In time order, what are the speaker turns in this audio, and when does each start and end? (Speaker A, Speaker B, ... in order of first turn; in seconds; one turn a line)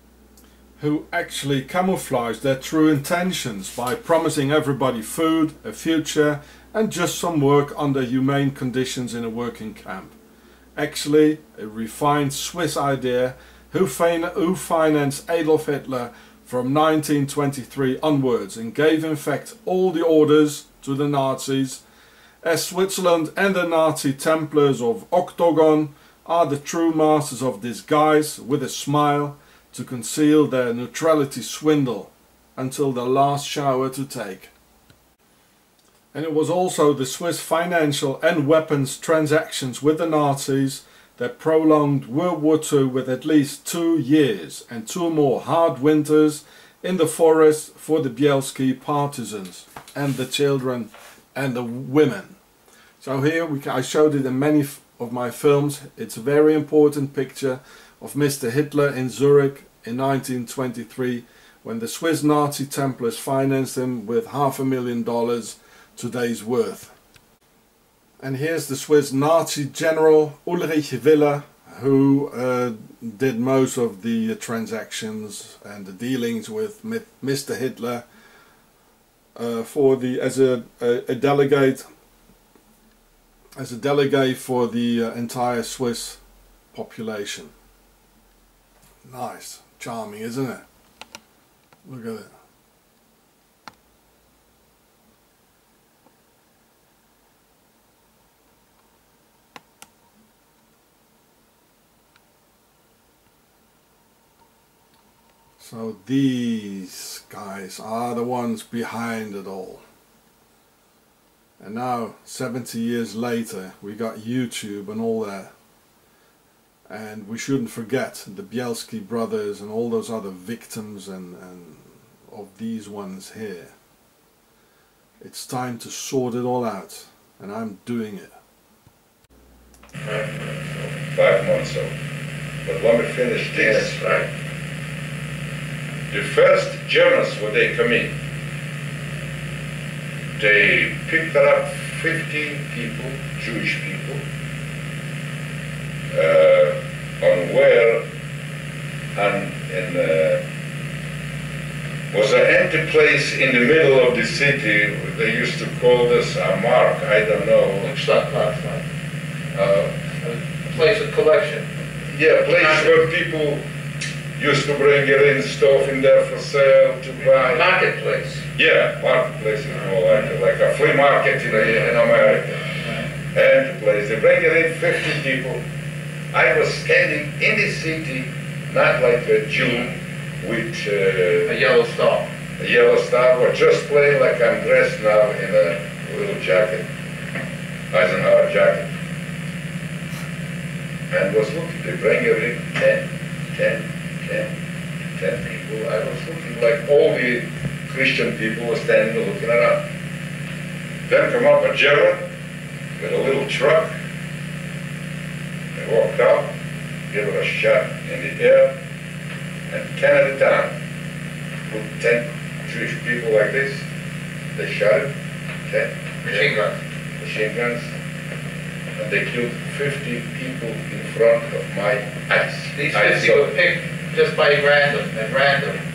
Speaker A: 0.8-10.2
Speaker A: 10.8-21.8
Speaker A: 22.4-34.5
Speaker A: 36.1-52.4
Speaker A: 53.0-66.9
Speaker A: 68.2-78.0
Speaker A: 79.4-81.9
Speaker A: 83.6-86.2
Speaker A: 86.7-87.5
Speaker A: 89.0-90.7
Speaker A: 91.8-92.3
Speaker A: 105.6-109.8
Speaker A: 111.6-115.5
Speaker A: 116.9-123.7
Speaker A: 125.2-128.3
Speaker B: 130.0-130.9
Speaker C: 131.1-131.9
Speaker C: 132.7-134.0
Speaker B: 133.5-134.2
Speaker C: 136.1-138.1
Speaker C: 140.4-144.2
Speaker C: 146.1-148.0
Speaker C: 149.2-150.4
Speaker C: 152.1-157.9
Speaker D: 157.8-158.8
Speaker C: 159.5-159.9
Speaker D: 160.2-161.7
Speaker C: 162.1-163.6
Speaker C: 164.4-167.7
Speaker B: 167.4-168.4
Speaker C: 168.6-172.7
Speaker C: 173.3-175.6
Speaker C: 176.3-181.5
Speaker D: 181.5-182.3
Speaker C: 182.6-186.9
Speaker C: 187.9-188.9
Speaker C: 191.1-194.5
Speaker C: 195.2-199.8
Speaker C: 201.1-202.2
Speaker C: 203.0-203.9
Speaker C: 205.8-206.5
Speaker C: 207.1-208.8
Speaker C: 209.7-210.7
Speaker C: 211.7-213.9
Speaker C: 214.6-215.1
Speaker C: 215.6-216.5
Speaker D: 216.2-216.8
Speaker C: 217.2-217.9
Speaker C: 219.0-223.5
Speaker D: 222.7-225.8